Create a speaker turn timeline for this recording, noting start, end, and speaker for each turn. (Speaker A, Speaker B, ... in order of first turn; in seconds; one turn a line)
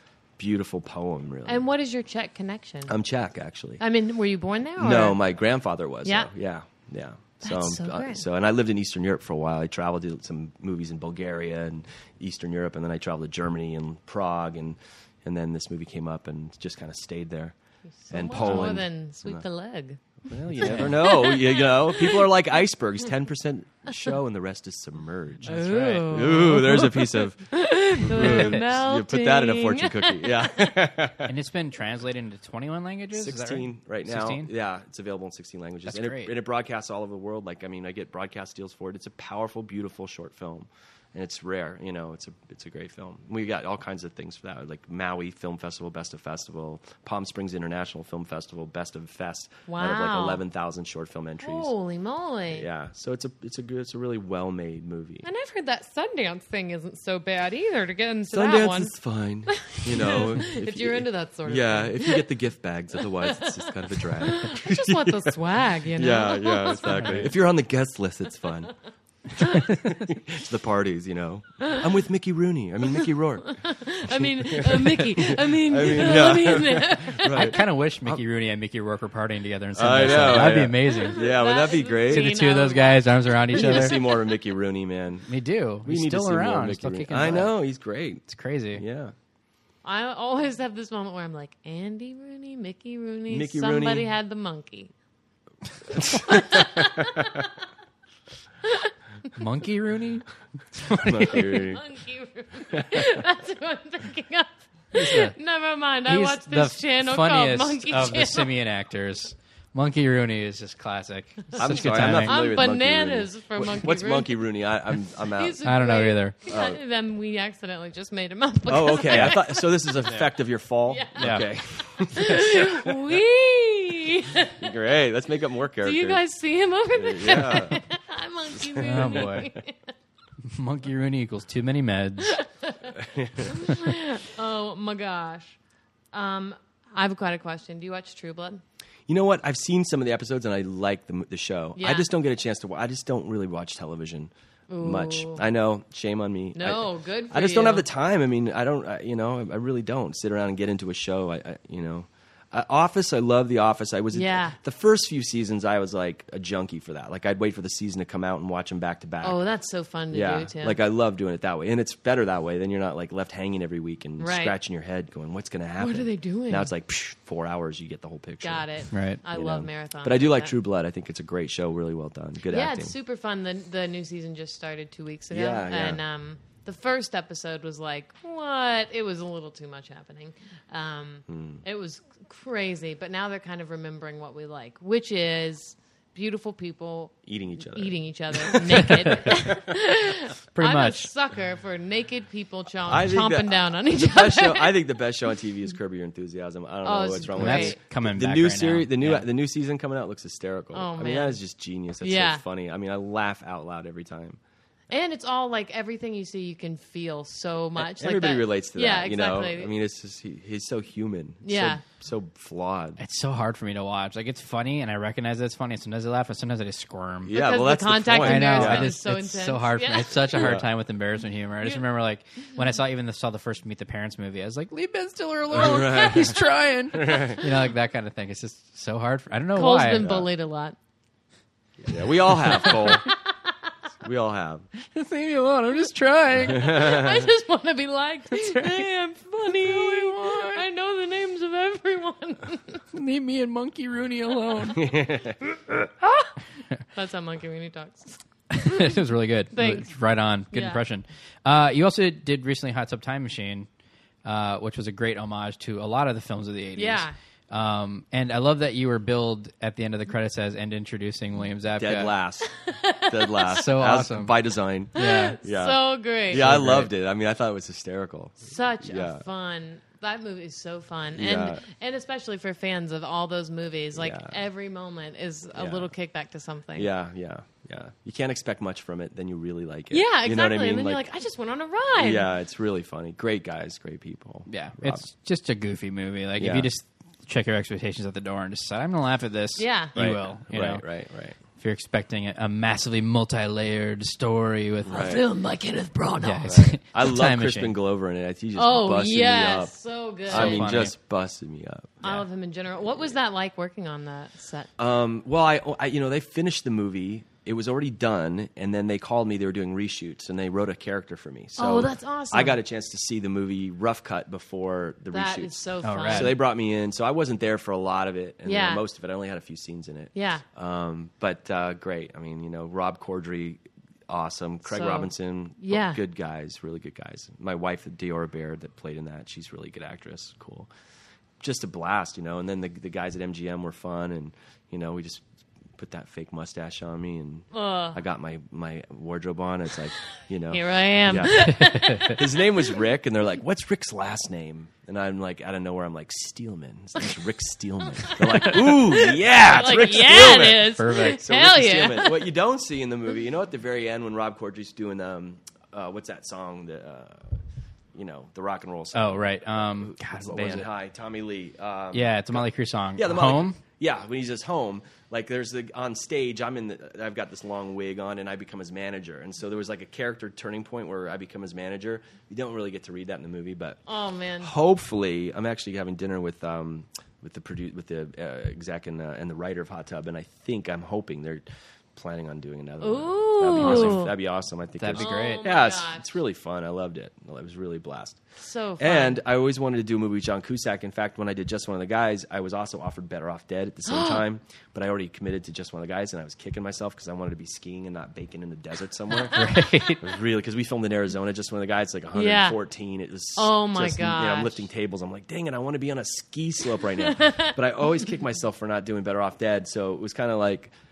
Speaker A: 0.4-1.6
Speaker B: 1.5-3.0
Speaker A: 2.9-3.8
Speaker B: 3.8-5.2
Speaker A: 4.8-17.6
Speaker B: 7.4-8.2
Speaker B: 18.0-20.0
Speaker A: 18.1-19.4
Speaker C: 18.4-18.7
Speaker A: 20.3-31.3
Speaker B: 20.6-22.3
Speaker C: 20.6-20.9
Speaker C: 25.4-26.8
Speaker B: 25.5-30.7
Speaker C: 28.1-28.6
Speaker C: 31.2-34.5
Speaker A: 33.1-51.7
Speaker C: 35.9-36.3
Speaker B: 49.7-50.4
Speaker B: 51.4-52.7
Speaker A: 52.5-55.3
Speaker B: 55.2-59.0
Speaker A: 58.3-65.4
Speaker B: 59.5-62.3
Speaker B: 63.0-67.4
Speaker A: 65.9-68.7
Speaker C: 66.9-67.3
Speaker A: 69.4-78.2
Speaker C: 69.5-69.9
Speaker B: 71.6-71.9
Speaker B: 73.0-77.6
Speaker C: 77.3-81.2
Speaker A: 79.8-82.4
Speaker B: 80.9-84.2
Speaker C: 82.1-84.0
Speaker A: 83.5-85.3
Speaker C: 85.3-87.6
Speaker A: 85.8-88.2
Speaker C: 88.3-88.8
Speaker A: 88.8-89.1
Speaker B: 89.8-94.9
Speaker A: 93.3-94.1
Speaker A: 95.9-96.8
Speaker B: 95.9-97.5
Speaker B: 98.6-98.9
Speaker C: 99.4-101.5
Speaker A: 100.9-101.8
Speaker B: 101.3-108.5
Speaker A: 102.7-103.2
Speaker C: 104.9-105.3
Speaker C: 106.1-112.4
Speaker A: 111.6-115.6
Speaker B: 112.1-114.4
Speaker B: 115.3-119.9
Speaker C: 115.7-116.4
Speaker A: 116.5-116.8
Speaker A: 118.7-123.0
Speaker B: 120.9-124.7
Speaker C: 121.2-121.5
Speaker A: 124.6-126.2
Speaker B: 125.8-129.9
Speaker A: 126.9-127.8
Speaker A: 128.5-129.4
Speaker C: 128.8-129.5
Speaker C: 130.4-132.4
Speaker B: 132.3-135.6
Speaker A: 133.0-133.6
Speaker B: 136.1-138.6
Speaker A: 139.1-159.4
Speaker B: 141.8-142.1
Speaker B: 144.7-145.4
Speaker B: 146.6-147.9
Speaker B: 154.1-154.6
Speaker B: 159.2-160.8
Speaker A: 160.1-168.7
Speaker B: 164.2-164.6
Speaker B: 165.8-166.7
Speaker B: 168.4-170.5
Speaker C: 168.9-169.2
Speaker A: 169.3-172.9
Speaker B: 172.5-194.8
Speaker A: 175.3-176.0
Speaker A: 181.3-181.6
Speaker A: 187.3-189.7
Speaker C: 190.5-191.1
Speaker A: 192.9-204.4
Speaker B: 196.8-197.8
Speaker C: 197.4-199.3
Speaker B: 200.7-201.4
Speaker B: 202.0-202.4
Speaker B: 204.9-209.7
Speaker A: 207.8-213.0
Speaker B: 211.4-211.8
Speaker C: 213.0-217.4
Speaker A: 217.3-218.9
Speaker B: 217.3-220.5
Speaker C: 218.2-230.1
Speaker A: 220.3-220.7
Speaker A: 225.5-226.4
Speaker A: 226.9-227.4
Speaker B: 229.5-230.8
Speaker A: 230.0-230.3
Speaker A: 231.8-233.1
Speaker B: 232.5-233.5
Speaker A: 234.0-234.7
Speaker C: 234.8-236.8
Speaker A: 236.4-237.3
Speaker B: 236.5-242.8
Speaker C: 238.4-238.8
Speaker C: 239.4-240.6
Speaker C: 242.9-244.9
Speaker A: 244.7-245.6
Speaker B: 246.9-248.9
Speaker C: 248.5-253.7
Speaker B: 249.5-249.9
Speaker B: 250.5-250.8
Speaker C: 254.2-262.1
Speaker B: 256.8-257.1
Speaker A: 261.8-269.2
Speaker B: 262.6-263.6
Speaker C: 263.5-264.4
Speaker C: 264.9-265.4
Speaker B: 265.0-266.5
Speaker C: 266.4-266.9
Speaker B: 268.4-276.9
Speaker A: 271.1-271.6
Speaker A: 274.0-274.4
Speaker A: 275.5-275.9
Speaker A: 276.8-281.0
Speaker B: 279.9-282.3
Speaker A: 282.0-285.0
Speaker C: 284.5-290.9
Speaker A: 286.4-286.7
Speaker B: 289.6-289.9
Speaker A: 289.9-291.4
Speaker C: 291.6-295.2
Speaker A: 294.9-295.2
Speaker B: 294.9-296.6
Speaker C: 296.2-297.7
Speaker A: 296.4-299.7
Speaker B: 298.6-300.8
Speaker A: 300.3-302.0
Speaker C: 300.3-300.9
Speaker B: 302.0-304.7
Speaker A: 304.8-330.7
Speaker B: 311.6-312.6
Speaker B: 315.1-316.4
Speaker C: 315.8-316.4
Speaker B: 318.5-318.8
Speaker B: 320.1-320.4
Speaker B: 324.7-326.0
Speaker A: 331.4-335.2
Speaker A: 335.8-357.4
Speaker B: 337.5-338.0
Speaker B: 340.5-342.5
Speaker C: 341.5-342.1
Speaker B: 348.1-352.2
Speaker C: 350.7-351.2
Speaker A: 357.9-373.8
Speaker C: 358.9-360.7
Speaker C: 361.9-363.6
Speaker B: 373.9-374.5
Speaker A: 374.4-388.2
Speaker B: 382.8-384.1
Speaker C: 383.6-384.1
Speaker C: 384.8-385.5
Speaker B: 384.9-386.1
Speaker B: 388.4-389.2
Speaker A: 388.8-410.7
Speaker B: 393.9-394.2
Speaker C: 399.3-400.0
Speaker B: 402.1-402.6
Speaker B: 403.4-404.7
Speaker B: 407.0-407.6